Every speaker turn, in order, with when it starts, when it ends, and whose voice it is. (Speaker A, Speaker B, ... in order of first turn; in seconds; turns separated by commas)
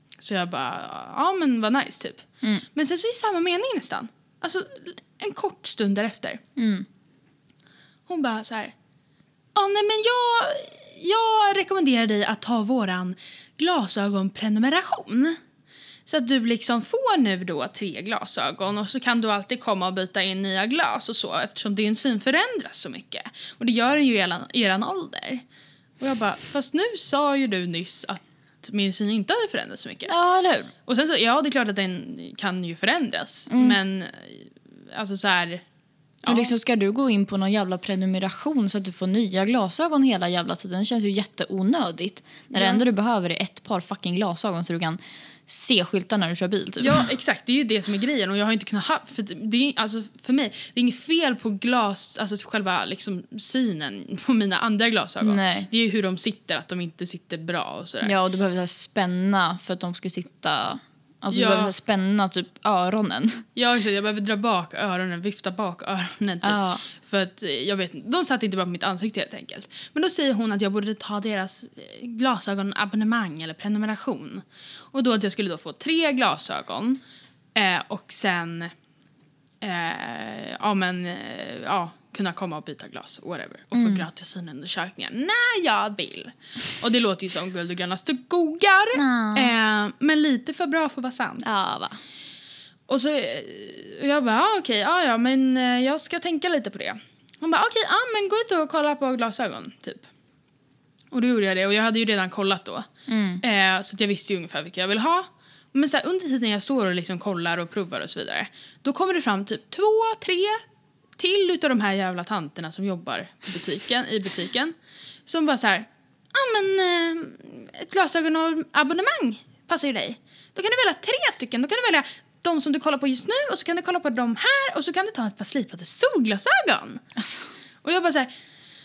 Speaker A: 0.2-6.4, Speaker B: 6.6-6.9, Speaker A: 8.1-8.8, Speaker A: 9.6-15.4, Speaker A: 16.1-25.4, Speaker A: 26.0-30.1, Speaker B: 30.1-30.7, Speaker A: 30.9-35.6, Speaker B: 33.5-33.8, Speaker A: 36.2-36.5, Speaker B: 36.3-47.1, Speaker A: 42.5-42.8, Speaker A: 46.8-58.1, Speaker B: 55.2-55.7, Speaker B: 58.0-63.4, Speaker A: 61.3-61.7, Speaker A: 63.5-77.0, Speaker B: 66.4-66.8, Speaker A: 77.5-78.7, Speaker A: 79.6-91.5, Speaker B: 83.7-84.1, Speaker B: 89.0-89.5, Speaker B: 91.4-92.0, Speaker A: 92.9-100.1, Speaker A: 101.1-102.9, Speaker B: 103.1-103.4, Speaker A: 103.4-110.6, Speaker A: 111.2-114.7, Speaker A: 115.3-127.0, Speaker B: 127.2-127.5, Speaker A: 127.8-128.3